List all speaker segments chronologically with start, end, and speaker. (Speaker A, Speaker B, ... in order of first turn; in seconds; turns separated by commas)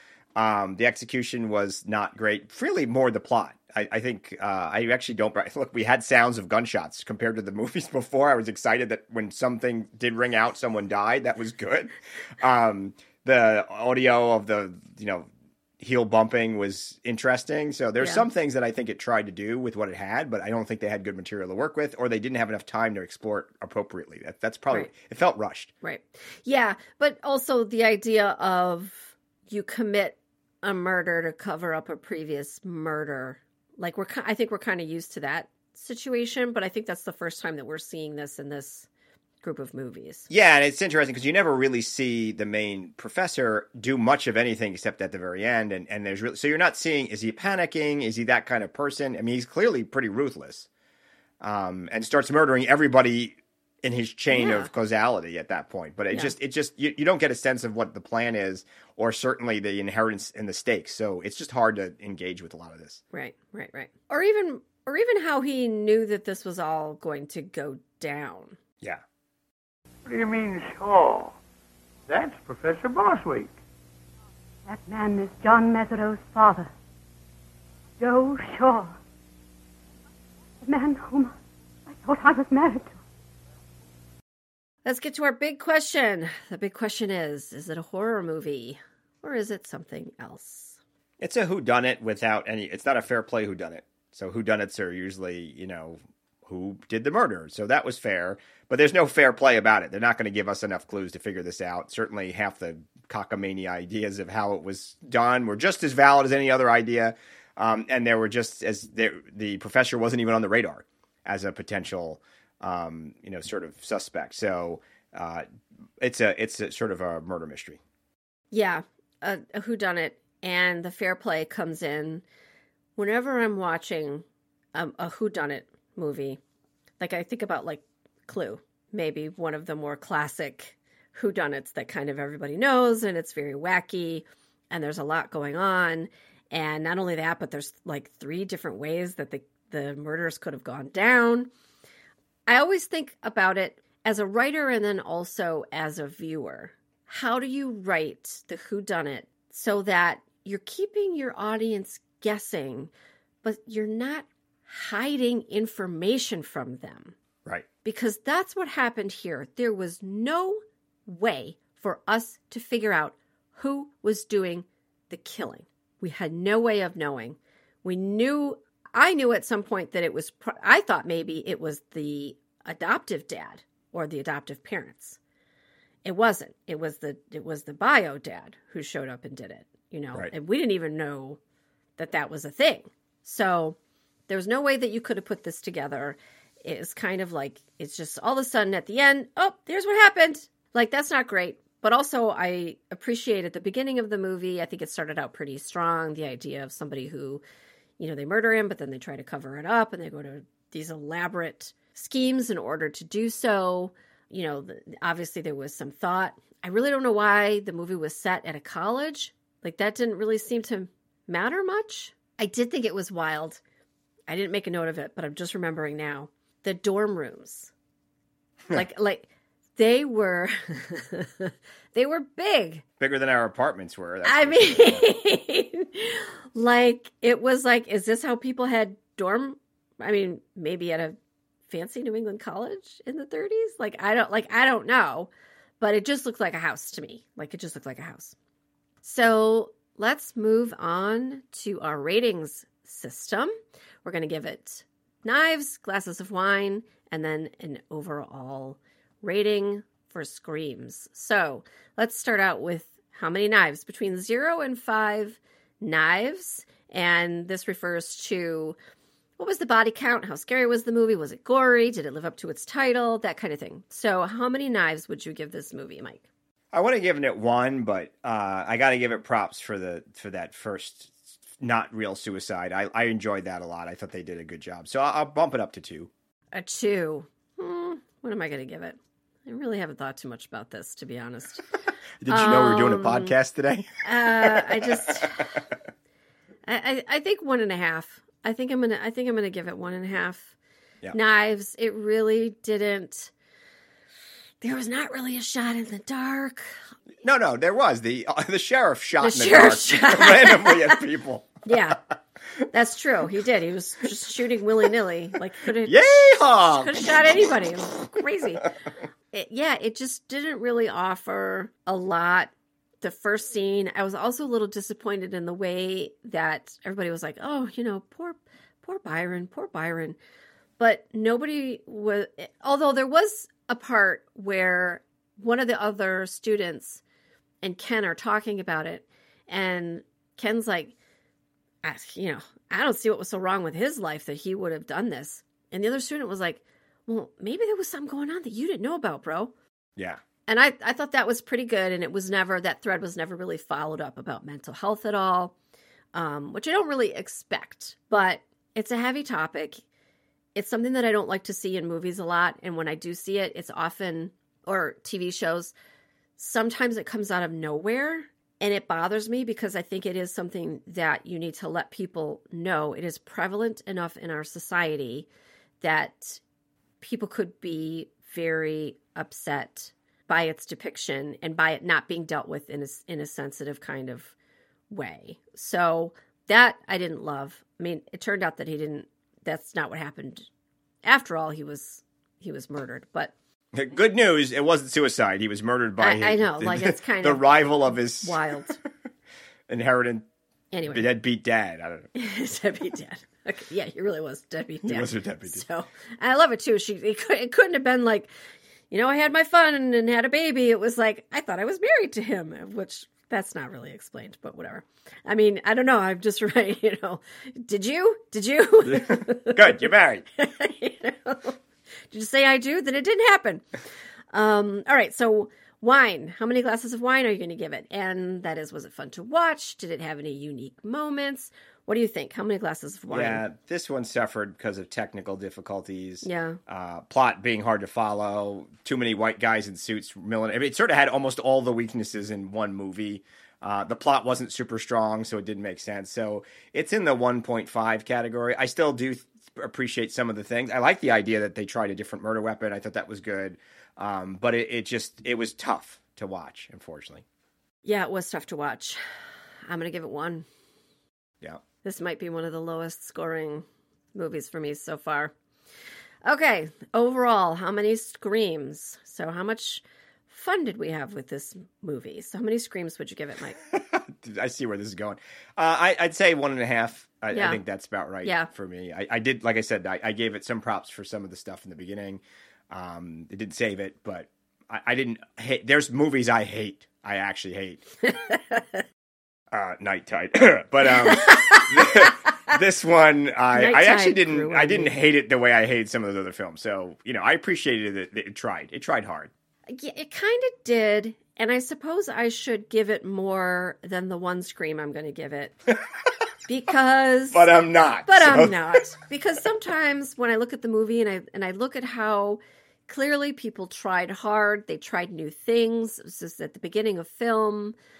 Speaker A: 0.3-15.3, Speaker A: 15.8-25.7, Speaker B: 18.0-18.2, Speaker B: 25.8-38.9, Speaker B: 39.4-40.3, Speaker A: 40.3-50.7, Speaker A: 51.4-63.0, Speaker B: 54.3-54.7, Speaker B: 63.1-68.6, Speaker C: 70.0-71.3, Speaker C: 72.1-73.5, Speaker D: 74.7-76.7, Speaker D: 78.0-78.9, Speaker D: 80.6-81.3, Speaker D: 81.9-83.0, Speaker B: 84.8-90.8, Speaker A: 91.2-115.4, Speaker A: 116.0-117.8, Speaker B: 118.5-122.2, Speaker B: 123.0-126.4, Speaker B: 127.0-141.5, Speaker B: 142.5-152.9, Speaker B: 153.4-157.1, Speaker B: 157.8-175.2, Speaker B: 176.0-181.4, Speaker B: 182.0-183.8, Speaker B: 184.3-197.4, Speaker B: 198.0-213.6, Speaker B: 214.3-217.7, Speaker B: 218.7-222.8, Speaker A: 223.0-225.1, Speaker B: 224.2-238.3, Speaker B: 239.0-243.5, Speaker B: 244.0-258.8, Speaker B: 259.4-266.2, Speaker A: 266.7-276.1, Speaker B: 276.5-281.6, Speaker A: 282.2-285.4, Speaker B: 282.3-283.3, Speaker B: 284.0-285.5, Speaker B: 286.7-290.5, Speaker B: 291.1-293.3, Speaker B: 294.6-296.8, Speaker A: 297.2-301.9, Speaker B: 299.2-301.0, Speaker B: 301.6-302.0, Speaker B: 302.7-308.7, Speaker A: 305.8-307.4, Speaker B: 309.3-320.2, Speaker B: 320.8-327.0, Speaker B: 327.6-330.9, Speaker B: 331.8-339.5, Speaker B: 340.5-345.5, Speaker B: 346.1-349.8, Speaker B: 350.5-355.7, Speaker B: 356.4-365.3, Speaker B: 365.8-366.4, Speaker B: 367.0-374.3, Speaker B: 374.9-380.5, Speaker B: 381.0-383.3, Speaker A: 383.7-388.5, Speaker B: 386.0-388.8, Speaker A: 389.7-390.3, Speaker B: 390.7-391.1, Speaker A: 390.9-392.1, Speaker B: 392.1-398.3, Speaker A: 394.8-395.6, Speaker B: 398.9-411.6, Speaker A: 408.8-410.2, Speaker B: 412.1-413.6, Speaker B: 414.3-423.4, Speaker A: 423.1-447.2, Speaker B: 426.2-426.6, Speaker B: 447.8-449.0, Speaker B: 449.7-450.5, Speaker B: 451.8-455.3, Speaker B: 456.2-463.6, Speaker A: 463.7-477.8, Speaker B: 467.3-467.6, Speaker B: 468.2-468.5, Speaker B: 478.1-478.8, Speaker A: 479.5-489.3, Speaker B: 481.1-482.1, Speaker B: 483.5-484.9, Speaker B: 489.7-495.6, Speaker B: 496.5-497.5, Speaker A: 497.3-498.8, Speaker B: 498.1-507.7